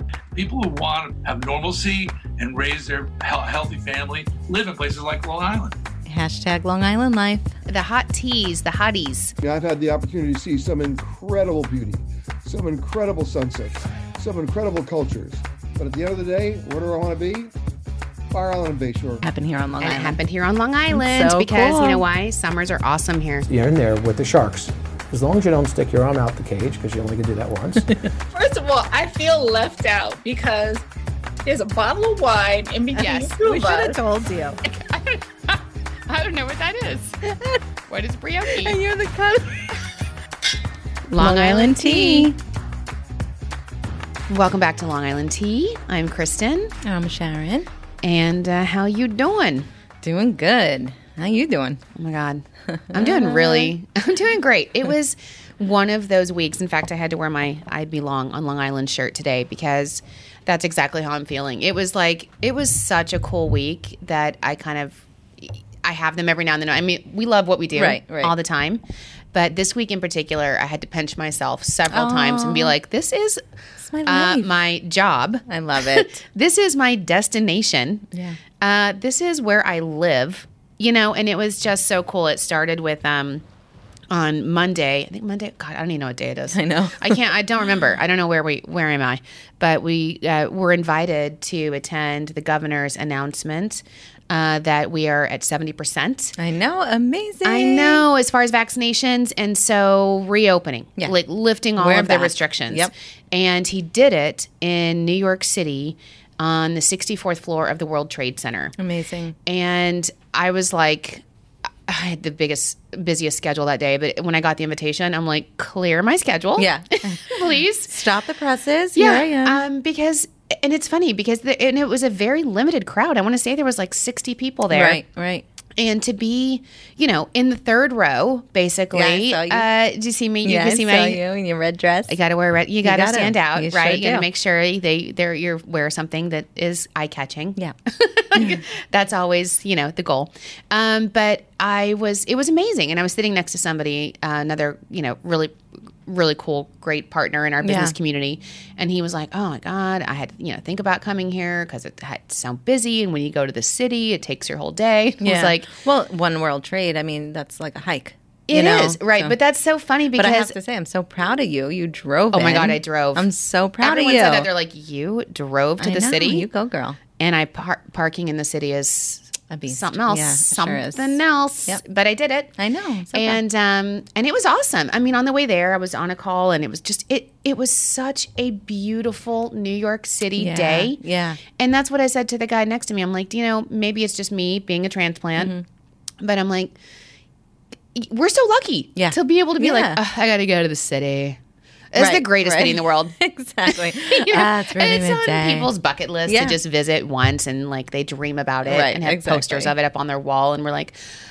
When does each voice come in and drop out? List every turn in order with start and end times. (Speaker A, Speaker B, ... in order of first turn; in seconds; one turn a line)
Speaker A: 0.3-5.8
Speaker B: 6.1-7.5
Speaker C: 7.7-9.3
Speaker D: 9.4-17.5
Speaker D: 18.3-19.2
Speaker B: 19.2-20.2
Speaker C: 19.8-23.5
Speaker B: 20.9-22.0
Speaker E: 23.5-28.1
Speaker F: 28.3-30.9
Speaker F: 31.4-34.0
Speaker C: 33.0-33.4
Speaker B: 33.4-34.6
Speaker C: 34.7-37.2
Speaker B: 37.2-37.6
Speaker C: 37.9-38.8
Speaker B: 38.5-39.8
Speaker B: 41.1-42.4
Speaker C: 41.2-42.3
Speaker C: 44.3-46.7
Speaker B: 46.8-47.7
Speaker C: 48.0-49.7
Speaker B: 50.0-51.8
Speaker C: 52.0-68.8
Speaker B: 52.7-53.7
Speaker B: 67.8-68.3
Speaker C: 69.3-73.4
Speaker B: 71.9-72.8
Speaker B: 73.8-74.5
Speaker C: 74.0-78.1
Speaker B: 75.5-76.2
Speaker B: 78.1-78.4
Speaker C: 78.6-83.4
Speaker C: 84.1-96.3
Speaker B: 86.5-87.2
Speaker B: 96.4-98.0
Speaker C: 97.4-108.7
Speaker B: 101.8-102.9
Speaker B: 108.8-109.4
Speaker C: 109.5-111.2
Speaker C: 111.9-118.0
Speaker B: 116.6-119.6
Speaker C: 119.0-125.0
Speaker B: 124.7-125.5
Speaker C: 125.8-131.2
Speaker B: 128.9-129.7
Speaker B: 130.4-132.2
Speaker C: 132.1-145.6
Speaker B: 132.8-134.3
Speaker C: 146.1-155.7
Speaker B: 147.6-147.9
Speaker B: 155.2-159.4
Speaker C: 158.5-160.6
Speaker B: 160.2-164.5
Speaker C: 162.3-163.3
Speaker C: 163.8-166.5
Speaker B: 165.8-167.0
Speaker C: 167.2-172.5
Speaker B: 169.5-171.8
Speaker B: 172.6-173.4
Speaker C: 173.1-181.0
Speaker B: 180.4-181.4
Speaker C: 181.6-185.6
Speaker B: 185.4-185.6
Speaker C: 186.2-186.8
Speaker C: 187.9-191.4
Speaker B: 189.0-190.0
Speaker C: 191.9-193.2
Speaker B: 192.0-195.7
Speaker C: 193.7-201.0
Speaker B: 196.3-196.6
Speaker B: 198.6-199.8